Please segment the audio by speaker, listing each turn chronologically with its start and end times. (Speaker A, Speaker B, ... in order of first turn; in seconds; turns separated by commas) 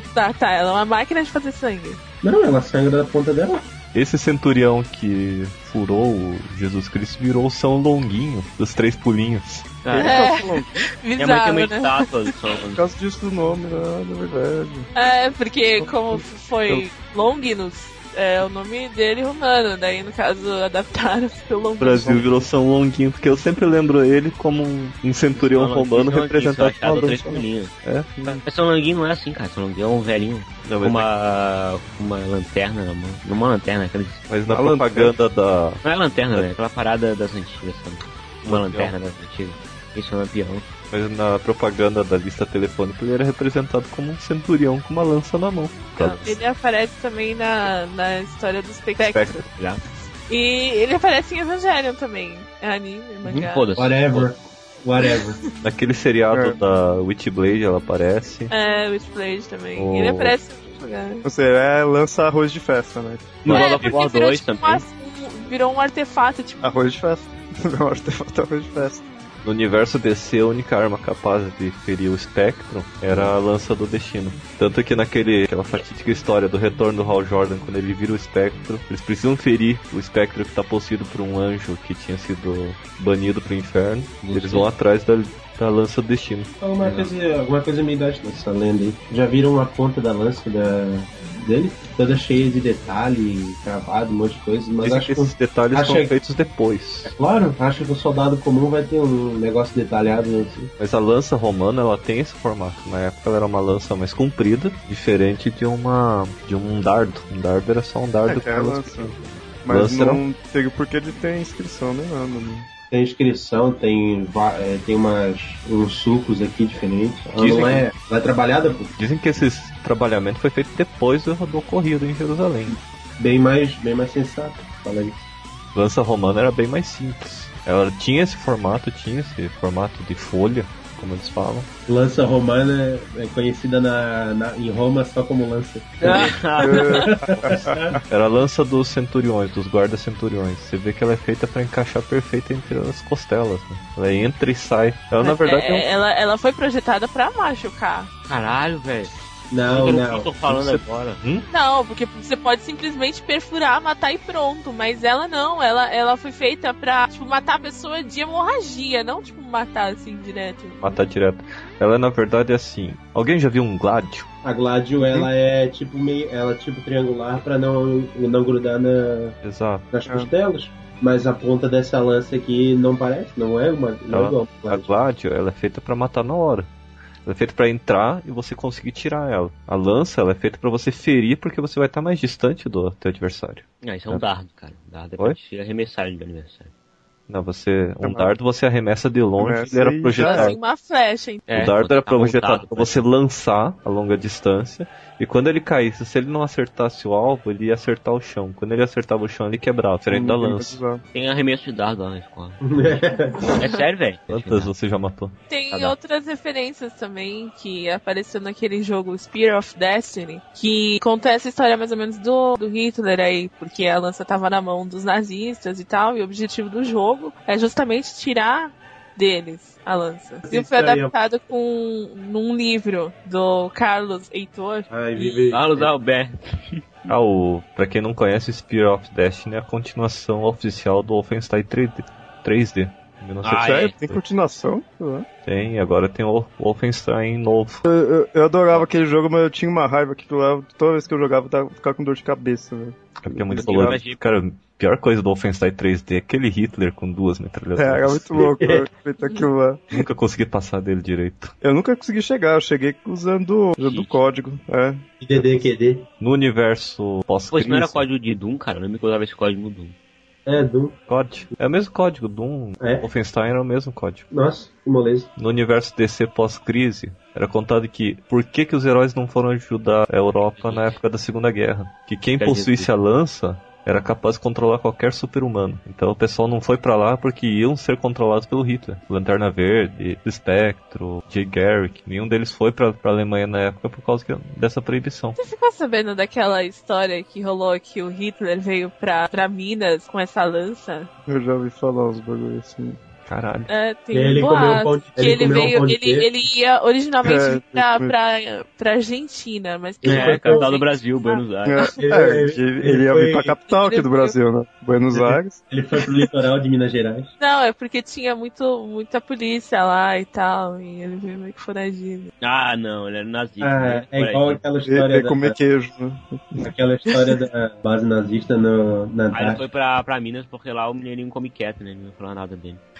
Speaker A: 0.1-2.0, Speaker B: 2.2-3.7, Speaker C: 3.9-9.8, Speaker D: 9.8-10.4, Speaker E: 9.9-10.8, Speaker A: 10.0-12.3, Speaker D: 11.2-12.8, Speaker E: 12.8-14.9, Speaker A: 14.9-22.2, Speaker E: 15.8-16.2, Speaker C: 21.8-28.1, Speaker D: 25.4-27.8, Speaker E: 28.2-28.4, Speaker D: 28.3-34.3, Speaker C: 30.6-31.1, Speaker C: 34.3-35.8, Speaker E: 34.5-35.1, Speaker D: 35.8-40.7, Speaker C: 38.5-38.9, Speaker C: 40.9-46.4, Speaker A: 46.0-49.4, Speaker C: 49.1-49.4, Speaker D: 49.5-49.8, Speaker A: 50.3-53.7, Speaker D: 53.4-54.3, Speaker B: 53.8-55.4, Speaker C: 55.6-58.5, Speaker E: 56.3-56.6, Speaker A: 58.5-61.2, Speaker C: 59.8-60.4, Speaker E: 61.2-63.5, Speaker D: 63.4-64.8, Speaker C: 63.5-63.9, Speaker A: 63.5-66.6, Speaker E: 66.6-69.1, Speaker C: 69.4-87.1, Speaker D: 84.2-84.7, Speaker B: 86.6-96.1, Speaker C: 94.8-97.1, Speaker B: 97.0-100.7, Speaker C: 100.8-110.2, Speaker E: 108.3-112.7, Speaker B: 112.9-118.9, Speaker C: 117.4-117.9, Speaker C: 119.0-122.8, Speaker B: 123.2-125.3, Speaker C: 125.7-131.7, Speaker B: 131.9-138.0, Speaker D: 136.0-137.0, Speaker E: 136.6-137.9, Speaker C: 137.2-145.9, Speaker A: 145.2-148.1, Speaker D: 148.3-149.1, Speaker B: 149.5-150.8, Speaker D: 149.7-151.2, Speaker A: 151.5-160.8, Speaker C: 160.8-164.3, Speaker B: 164.4-169.4, Speaker C: 169.4-169.9, Speaker B: 169.9-174.9, Speaker C: 174.1-176.7, Speaker C: 177.2-184.2, Speaker D: 183.8-186.7, Speaker C: 187.3-190.6, Speaker E: 188.0-188.3, Speaker E: 189.4-190.5, Speaker A: 190.2-191.5, Speaker D: 191.5-193.0, Speaker C: 191.5-200.8, Speaker E: 200.1-201.0, Speaker D: 201.1-204.7, Speaker B: 202.6-203.6, Speaker A: 203.5-203.8, Speaker C: 204.3-205.9, Speaker A: 205.5-225.3, Speaker B: 220.5-221.1, Speaker B: 224.9-225.9, Speaker D: 225.5-226.8, Speaker C: 227.1-234.2, Speaker D: 233.4-234.0, Speaker E: 233.5-235.3, Speaker C: 235.4-237.9, Speaker E: 237.9-244.0, Speaker C: 243.2-248.4, Speaker D: 243.6-244.2, Speaker E: 247.8-250.0, Speaker B: 248.4-248.9, Speaker C: 249.9-251.5, Speaker E: 251.6-255.0, Speaker D: 253.8-254.2, Speaker B: 255.2-256.1, Speaker C: 256.2-258.0, Speaker D: 257.5-259.9, Speaker B: 260.5-260.9, Speaker C: 261.1-264.2, Speaker B: 262.8-263.1, Speaker B: 264.3-265.3, Speaker C: 265.4-285.4, Speaker D: 270.6-271.0, Speaker D: 272.4-272.9, Speaker A: 285.4-291.1, Speaker E: 291.3-293.0, Speaker C: 293.3-293.7, Speaker A: 293.7-301.9, Speaker B: 294.1-296.3, Speaker E: 297.2-298.1, Speaker B: 300.0-300.7, Speaker D: 300.1-301.8, Speaker E: 301.7-305.6, Speaker B: 301.9-303.6, Speaker A: 303.7-304.4, Speaker B: 305.1-307.3, Speaker A: 307.4-312.3, Speaker D: 312.4-314.6, Speaker B: 313.6-315.6, Speaker E: 314.9-316.7, Speaker B: 316.6-319.6, Speaker D: 319.3-322.8